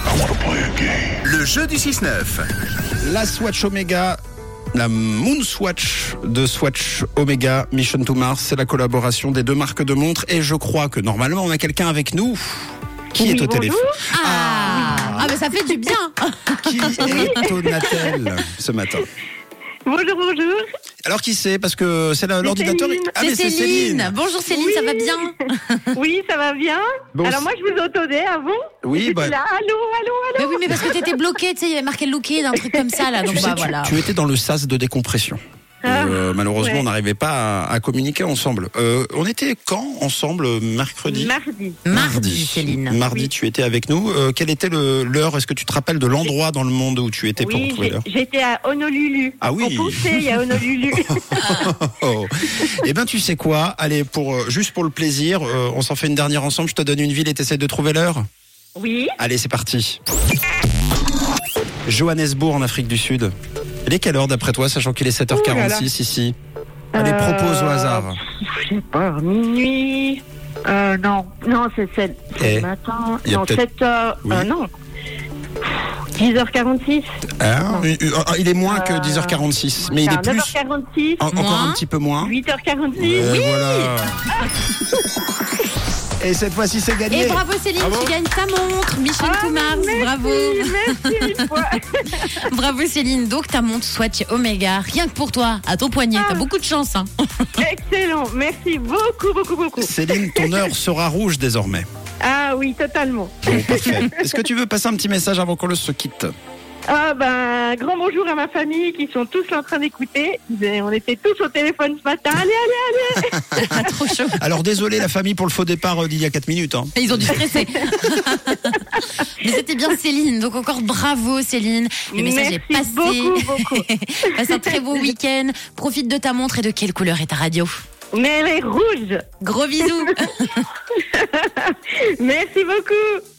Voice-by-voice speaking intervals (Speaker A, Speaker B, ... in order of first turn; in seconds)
Speaker A: 1.2-2.4, 3.0-4.2, 4.7-15.3, 16.6-19.1, 21.0-24.1, 27.1-27.4, 28.8-29.4, 33.3-41.3, 41.9-48.0, 49.4-58.2, 59.2-60.0, 61.9-63.3, 63.9-66.3, 66.9-68.2, 72.4-72.7, 73.2-73.6, 77.4-80.5, 81.2-82.4, 83.0-84.2, 86.2-88.1, 99.8-101.9, 103.4-106.3, 113.2-117.4
Speaker B: 13.2-14.0, 15.0-15.3, 17.0-18.2, 19.9-20.7, 22.4-23.2, 24.5-25.3, 25.9-31.1, 32.6-33.0, 35.8-36.8, 41.0-41.8, 47.4-51.7, 58.8-59.1, 65.3-65.9, 66.9-74.7, 76.1-77.1, 78.6-81.2, 82.2-85.0, 89.2-92.5, 96.1-96.5, 97.6-100.7, 102.2-104.4, 106.9-113.8, 122.1-124.8, 128.1-130.1, 130.9-133.2
Speaker C: 14.1-17.4, 23.2-25.9, 30.4-34.0, 41.8-43.0, 81.2-81.8, 87.1-91.6, 92.3-97.6, 113.5-114.4, 117.0-127.8, 129.4-130.7